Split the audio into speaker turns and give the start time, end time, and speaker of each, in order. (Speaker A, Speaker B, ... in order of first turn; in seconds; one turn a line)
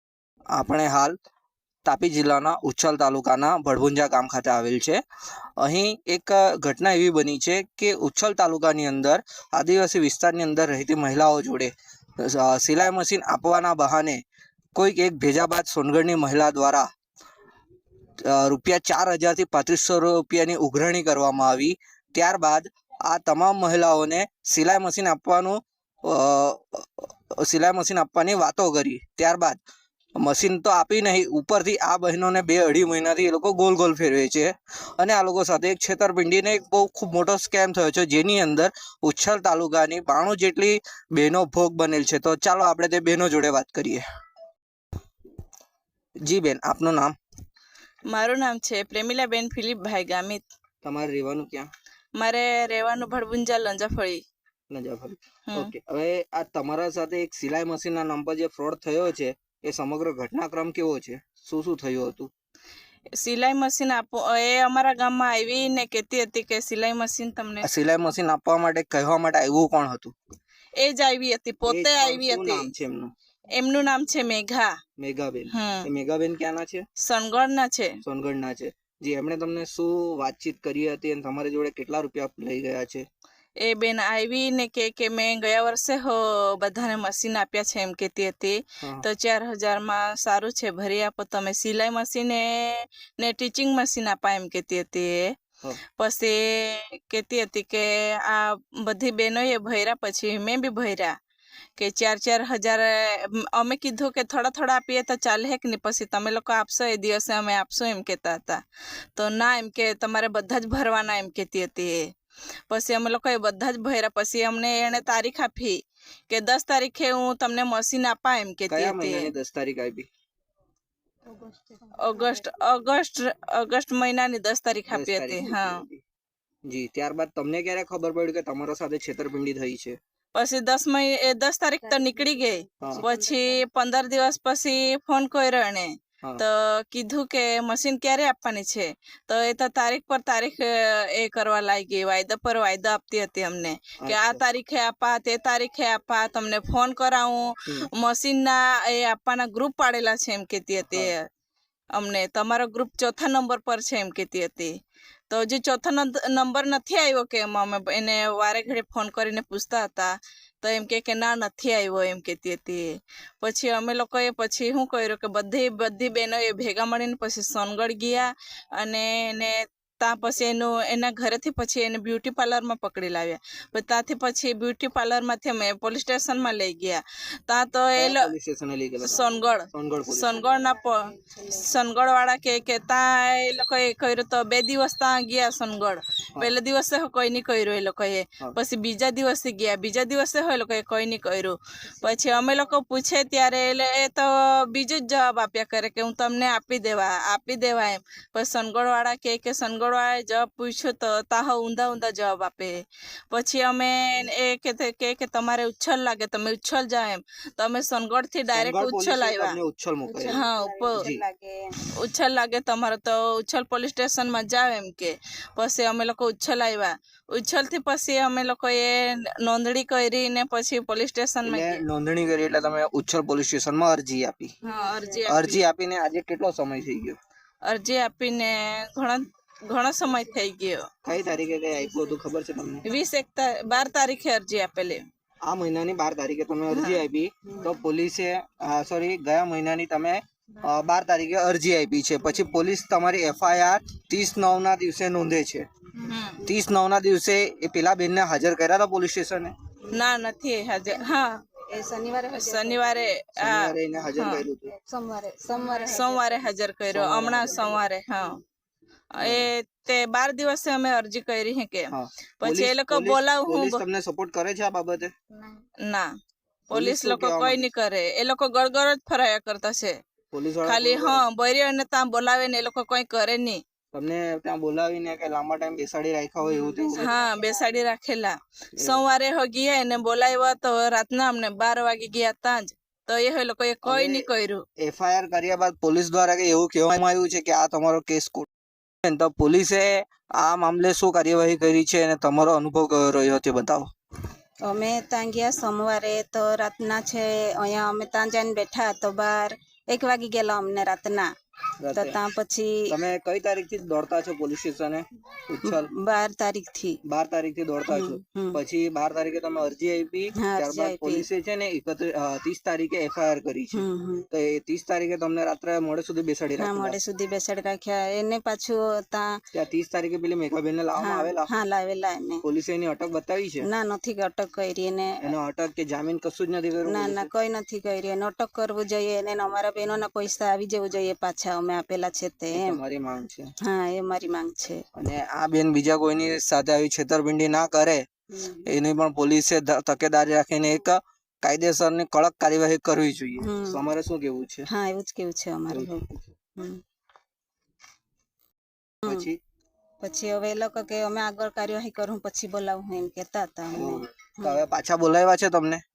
Speaker A: 0.5-1.2
Speaker A: 1.8-5.0
Speaker A: 5.6-14.2
Speaker A: 14.7-16.9
Speaker A: 18.2-29.6
Speaker A: 30.2-44.0
Speaker A: 46.2-47.1
Speaker B: 48.1-50.4
Speaker A: 50.8-51.7
Speaker B: 52.2-54.2
Speaker A: 54.7-62.3
Speaker B: 63.1-67.7
Speaker A: 67.6-70.1
Speaker B: 70.8-72.7
Speaker A: 71.7-73.1
Speaker B: 73.5-74.8
Speaker A: 75.0-76.8
Speaker B: 75.5-75.9
Speaker B: 77.0-77.9
Speaker A: 78.0-83.0
Speaker B: 83.6-95.3
Speaker B: 96.0-101.2
Speaker B: 101.8-108.6
Speaker B: 109.2-112.1
Speaker B: 112.7-119.3
Speaker A: 118.7-120.1
Speaker C: 121.2-122.6
Speaker B: 122.0-125.8
Speaker A: 124.9-126.0
Speaker A: 126.7-130.0
Speaker B: 130.3-151.3
Speaker C: 131.8-134.0
Speaker A: 144.0-144.4
Speaker B: 151.9-154.8
Speaker B: 155.3-178.3
Speaker A: 177.9-180.4
Speaker B: 179.0-202.8
Speaker C: 179.1-179.6
Speaker C: 180.3-181.7
Speaker C: 191.9-192.8
Speaker B: 203.3-209.6
Speaker A: 208.5-210.4
Speaker C: 210.1-211.6
Speaker B: 210.3-211.1
Speaker A: 210.9-211.2
Speaker B: 211.9-221.8
Speaker A: 221.4-224.5
Speaker B: 224.6-225.6
Speaker C: 224.6-225.2
Speaker A: 225.3-227.2
Speaker B: 227.6-230.9
Speaker A: 231.0-232.8
Speaker B: 232.8-235.0
Speaker A: 235.4-245.7
Speaker B: 236.7-237.1
Speaker B: 246.0-246.4
Speaker A: 246.4-249.5
Speaker B: 249.9-251.4
Speaker C: 251.7-253.1
Speaker B: 252.3-254.4
Speaker A: 253.4-254.7
Speaker C: 254.7-256.5
Speaker B: 255.6-258.4
Speaker A: 256.9-257.7
Speaker C: 257.2-257.8
Speaker B: 259.1-263.8
Speaker A: 259.2-259.5
Speaker A: 261.9-265.1
Speaker B: 265.9-266.1
Speaker B: 266.7-270.0
Speaker A: 266.7-267.6
Speaker A: 270.3-271.2
Speaker B: 270.6-273.6
Speaker A: 273.9-277.1
Speaker C: 276.4-277.9
Speaker B: 276.9-284.6
Speaker A: 278.8-279.0
Speaker A: 283.8-284.3
Speaker A: 284.8-288.5
Speaker A: 289.0-293.9
Speaker C: 294.6-301.3
Speaker A: 301.8-302.2
Speaker C: 301.9-302.9
Speaker A: 302.9-305.9
Speaker C: 305.6-307.0
Speaker A: 307.1-317.0
Speaker C: 307.9-308.6
Speaker C: 310.4-311.3
Speaker C: 313.7-314.2
Speaker C: 316.6-319.4
Speaker A: 319.5-321.5
Speaker C: 321.0-322.4
Speaker A: 322.4-323.7
Speaker C: 323.6-325.3
Speaker A: 325.2-327.3
Speaker C: 326.8-332.8
Speaker A: 332.5-333.5
Speaker C: 333.6-334.8
Speaker A: 334.9-338.1
Speaker C: 338.3-338.6
Speaker A: 338.6-344.7
Speaker C: 343.4-343.8
Speaker C: 344.7-346.8
Speaker A: 345.7-346.2
Speaker A: 349.1-349.4
Speaker C: 350.0-354.6
Speaker A: 353.7-355.8